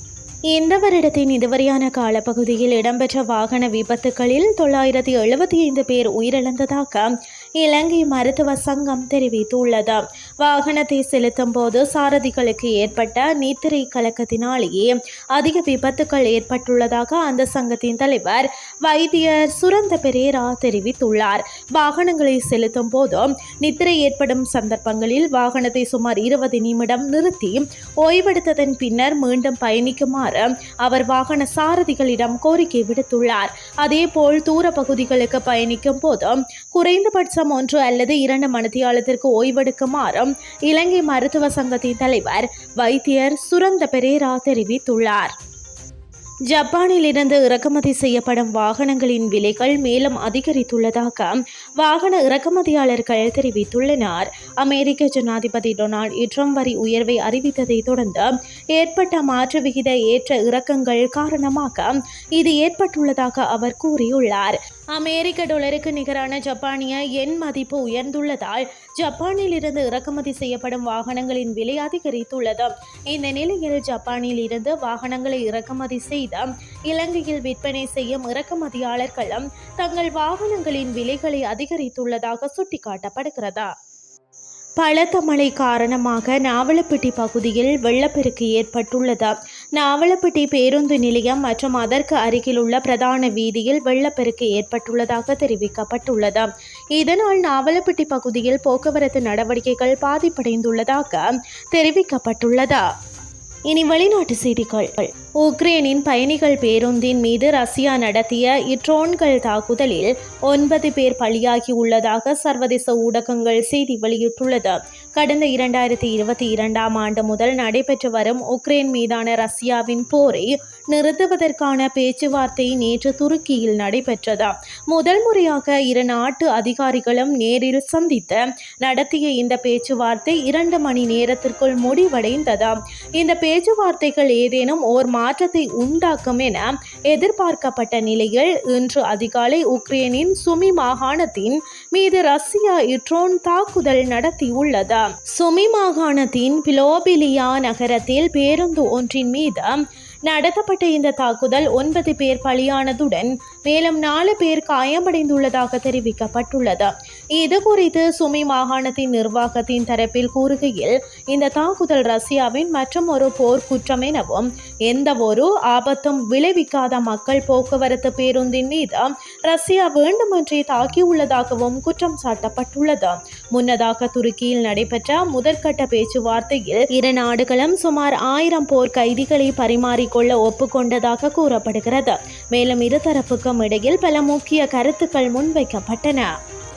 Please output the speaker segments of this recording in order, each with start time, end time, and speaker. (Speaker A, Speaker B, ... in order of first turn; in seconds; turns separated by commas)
Speaker A: 0.5-45.3, Speaker A: 46.5-83.7, Speaker A: 84.8-102.8, Speaker A: 103.7-186.3